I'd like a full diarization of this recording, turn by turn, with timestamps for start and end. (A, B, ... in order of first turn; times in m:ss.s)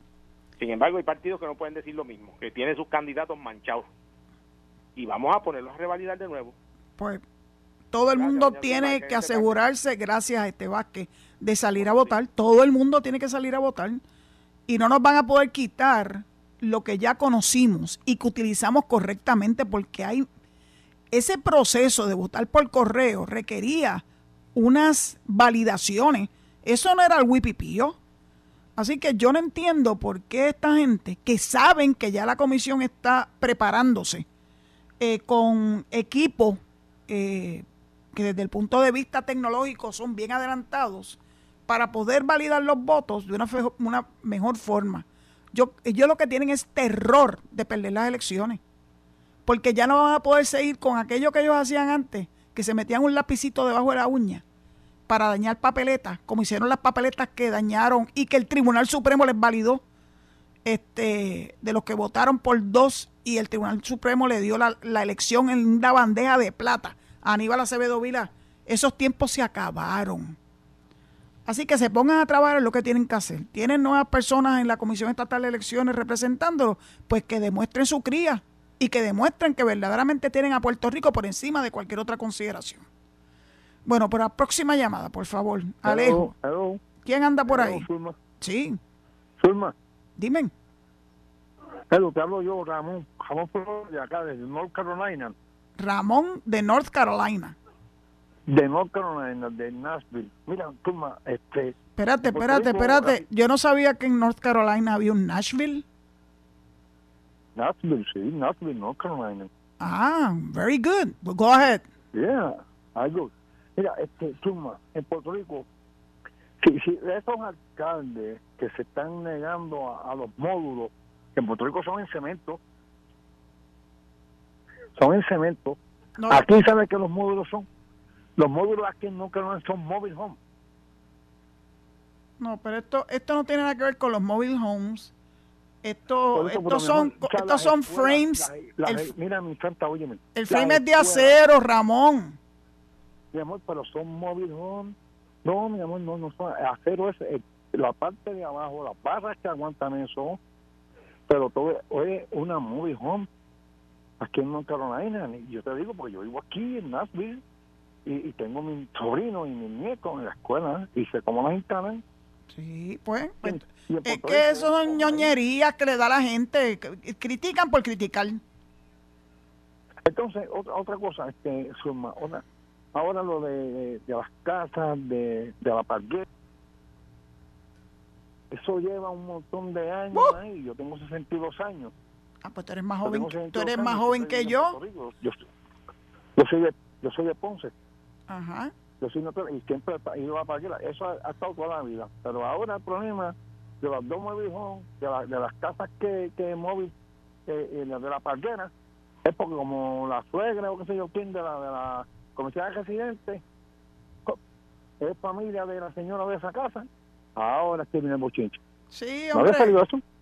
0:00.6-0:03.9 A
0:05.0-0:06.5 A
0:07.0-0:07.2 B
0:07.9-0:14.0 B
0:08.2-0:09.6 A
0:11.8-0:12.1 A
0:14.7-0:20.3 B
0:21.1-0:24.0 B
0:24.5-0:28.0 B
0:28.8-0:34.2 B
0:35.0-0:48.6 B
0:49.4-0:54.4 B
0:55.1-0:59.8 B
1:00.6-1:10.4 B
1:11.4-1:22.8 B
1:23.8-1:26.3 B
1:25.8-1:26.8 C
1:27.0-1:27.9 B
1:27.4-1:28.2 C
1:28.4-1:28.8 B
1:29.4-1:29.7 C
1:30.2-1:30.5 B
1:31.9-1:35.3 C
1:35.8-1:37.6 B
1:38.5-1:41.7 C
1:42.0-1:45.8 B
1:42.3-1:43.2 C
1:47.6-1:49.5 C
1:49.8-1:51.8 B
1:52.1-1:55.6 C
1:56.6-2:02.6 C
2:05.0-2:05.8 C
2:06.2-2:06.5 B
2:06.3-2:07.7 C
2:08.4-2:10.4 C
2:12.4-2:15.1 B
2:15.8-2:19.1 B
2:16.3-2:21.4 C
2:20.4-2:22.4 B
2:23.3-2:30.4 C
2:31.3-2:33.3 C
2:34.2-2:37.4 C
2:38.0-2:42.0 C
2:42.5-2:48.4 B
2:43.4-2:45.3 C
2:50.0-2:52.4 C
2:52.9-2:56.2 C
2:58.5-3:01.9 C
3:00.1-3:00.4 B
3:02.4-3:04.8 B
3:03.0-3:05.4 C
3:06.4-3:07.7 C
3:08.3-3:08.7 B
3:09.0-3:16.9 C
3:17.5-3:18.7 C
3:19.2-3:23.4 C
3:25.0-3:28.6 C
3:28.9-3:29.8 B
3:29.3-3:30.0 C